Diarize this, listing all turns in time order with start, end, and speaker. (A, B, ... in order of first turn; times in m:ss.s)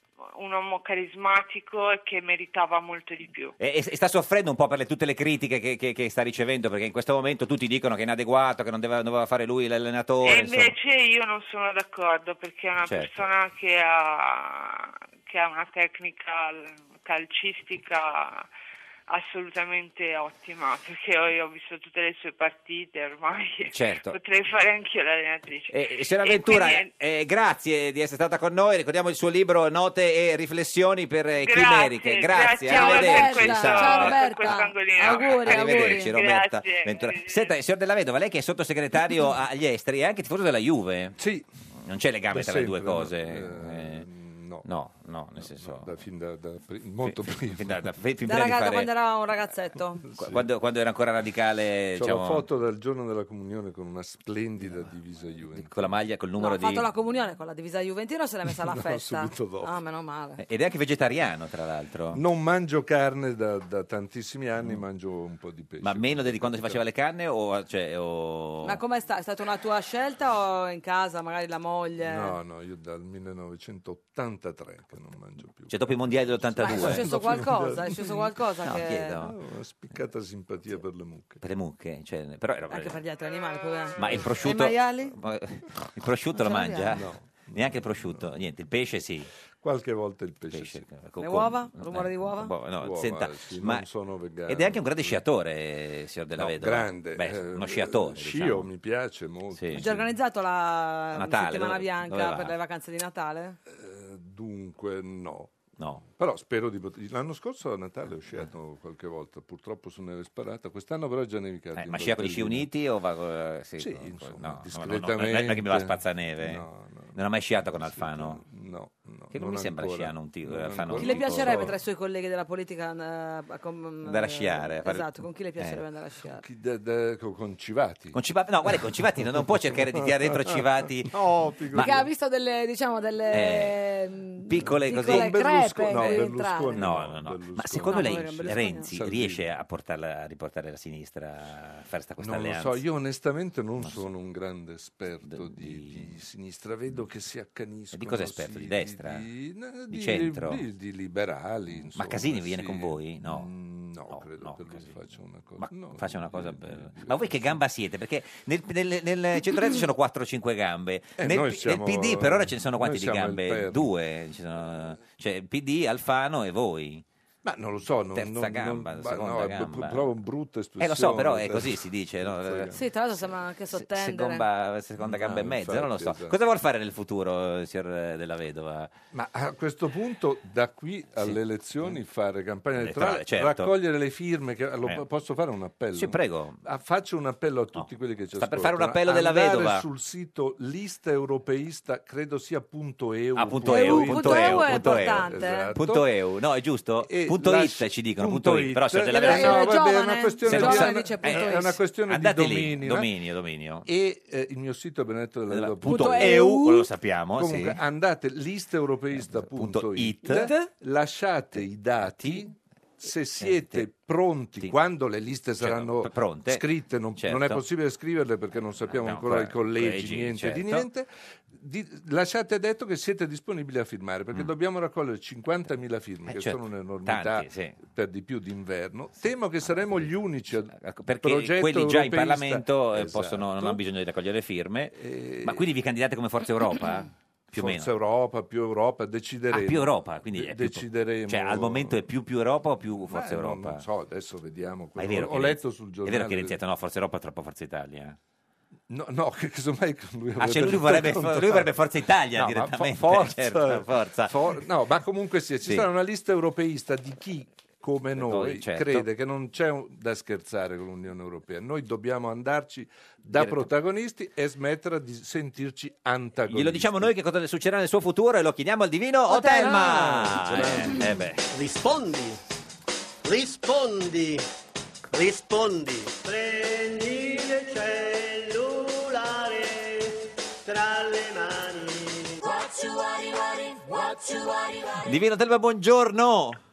0:00.3-0:03.5 A
0:03.6-0:10.7 B
0:10.2-0:18.5 A
0:12.8-0:13.2 B
0:19.1-0:26.9 A
0:23.7-0:24.2 B
0:25.7-0:41.2 B
0:31.4-0:37.5 A
0:32.6-0:36.1 C
0:41.2-0:41.5 D
0:41.8-0:44.0 B
0:42.3-0:44.7 D
0:44.6-0:45.9 B
0:45.4-0:47.8 D
0:47.0-0:48.9 B
0:48.2-0:50.0 C
0:50.0-0:50.5 D
0:50.2-0:52.4 B
0:51.9-0:56.0 D
0:54.6-0:54.9 B
0:55.5-0:56.8 B
0:56.4-1:00.4 C
0:58.6-0:59.7 D
1:00.4-1:02.2 B
1:02.1-1:06.8 D
1:05.8-1:08.8 B
1:08.6-1:12.4 C
1:12.0-1:18.3 D
1:15.7-1:17.1 B
1:16.6-1:19.2 C
1:18.6-1:19.3 B
1:19.2-1:21.4 D
1:21.4-1:23.0 B
1:22.7-1:25.1 C
1:24.0-1:29.3 B
1:24.0-1:24.3 D
1:26.3-1:27.0 C
1:26.9-1:28.3 D
1:29.6-1:30.8 D
1:30.5-1:33.8 B
1:31.2-1:32.5 C
1:32.8-1:35.2 D
1:34.5-1:38.7 B
1:36.4-1:40.1 D
1:39.5-1:39.8 B
1:39.7-1:43.6 C
1:41.1-1:42.6 B
1:43.7-1:52.7 D
1:45.8-1:46.0 B
1:51.8-1:58.4 B
1:53.8-2:01.7 D
1:59.3-2:01.7 B
2:01.0-2:06.4 C
2:04.0-2:05.8 B
2:06.4-2:08.2 D
2:08.1-2:11.1 B
2:09.2-2:12.1 D
2:11.7-2:12.0 B
2:11.7-2:16.8 C
2:13.3-2:13.8 B
2:14.5-2:15.4 B
2:14.6-2:19.5 D
2:15.9-2:22.8 B
2:17.8-2:18.9 C
2:22.2-2:37.6 D
2:23.8-2:24.1 B
2:25.2-2:26.1 B
2:27.9-2:29.2 B
2:29.9-2:30.6 B
2:31.8-2:33.5 B
2:34.1-2:34.9 B
2:35.6-2:47.0 B
2:41.2-2:43.9 D
2:47.4-2:52.8 D
2:48.1-2:50.0 B
2:50.8-2:52.7 B
2:52.7-2:54.4 C
2:53.7-2:58.9 B
2:55.0-2:56.4 D
2:59.1-3:16.1 D
3:01.2-3:02.0 B
3:02.8-3:03.7 B
3:05.9-3:06.6 B
3:07.8-3:09.8 B
3:13.4-3:19.8 B
3:13.6-3:15.7 C
3:17.0-3:23.1 D
3:19.1-3:21.8 C
3:20.4-3:23.9 B
3:23.8-3:26.6 D
3:25.5-3:27.8 B
3:25.8-3:26.9 C
3:27.4-3:53.8 D
3:29.1-3:30.5 B
3:30.2-3:30.7 C
3:31.6-3:32.4 B
3:33.4-3:33.8 B
3:35.6-3:36.6 B
3:37.2-3:37.6 B
3:38.9-3:40.9 B
3:46.3-3:47.8 B
3:49.2-3:57.9 B
3:54.9-3:55.6 D
3:57.5-4:02.0 D
3:59.5-4:03.8 B
4:03.1-4:06.6 D
4:05.0-4:08.2 B
4:08.9-4:11.7 D
4:10.4-4:14.3 B
4:12.3-4:27.1 D
4:18.2-4:19.0 B
4:23.3-4:23.7 B
4:26.5-4:31.5 B
4:29.3-4:30.5 C
4:30.6-4:30.9 D
4:31.5-4:32.4 E
4:33.2-4:34.4 E
4:35.1-4:44.8 E
4:45.0-4:46.6 B